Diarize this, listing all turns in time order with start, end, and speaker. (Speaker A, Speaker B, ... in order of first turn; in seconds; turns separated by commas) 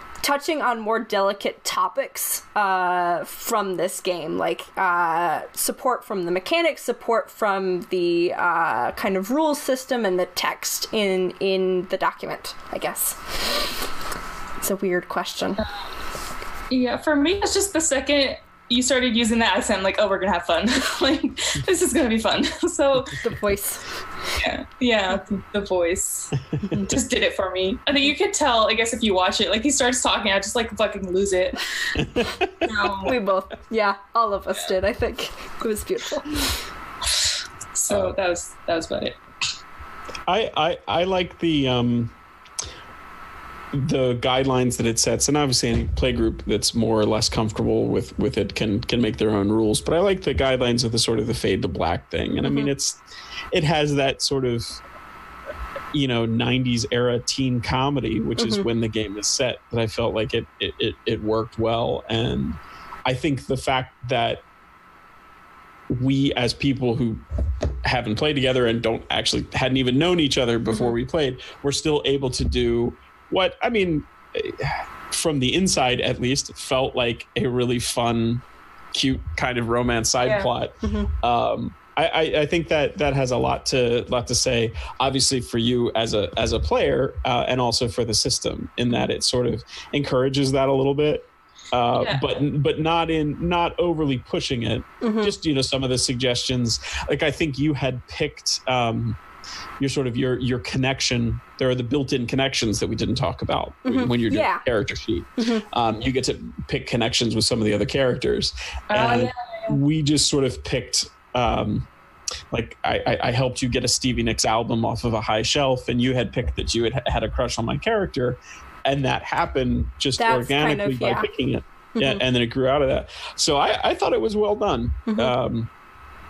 Speaker A: 0.2-13.7, Speaker A: 14.6-15.6, Speaker B: 16.7-23.2, Speaker A: 23.2-23.9, Speaker B: 24.4-26.3, Speaker C: 26.6-26.9, Speaker A: 26.6-26.9, Speaker B: 26.9-31.9, Speaker C: 31.9-32.7, Speaker B: 32.6-33.2, Speaker A: 33.0-36.5, Speaker B: 37.7-39.2, Speaker C: 37.9-38.2, Speaker C: 40.3-42.1, Speaker C: 43.7-53.0, Speaker A: 52.4-52.7, Speaker C: 53.5-54.8, Speaker C: 55.9-64.4, Speaker A: 58.4-58.7, Speaker C: 65.9-67.2, Speaker C: 67.8-99.2, Speaker B: 80.2-80.5, Speaker A: 80.8-81.1, Speaker B: 92.0-92.4, Speaker A: 95.0-95.3, Speaker C: 99.8-111.9, Speaker A: 103.8-104.6, Speaker A: 105.4-105.7, Speaker B: 108.9-109.8, Speaker C: 112.5-125.7, Speaker A: 120.2-121.3, Speaker A: 122.0-122.2, Speaker A: 125.1-125.3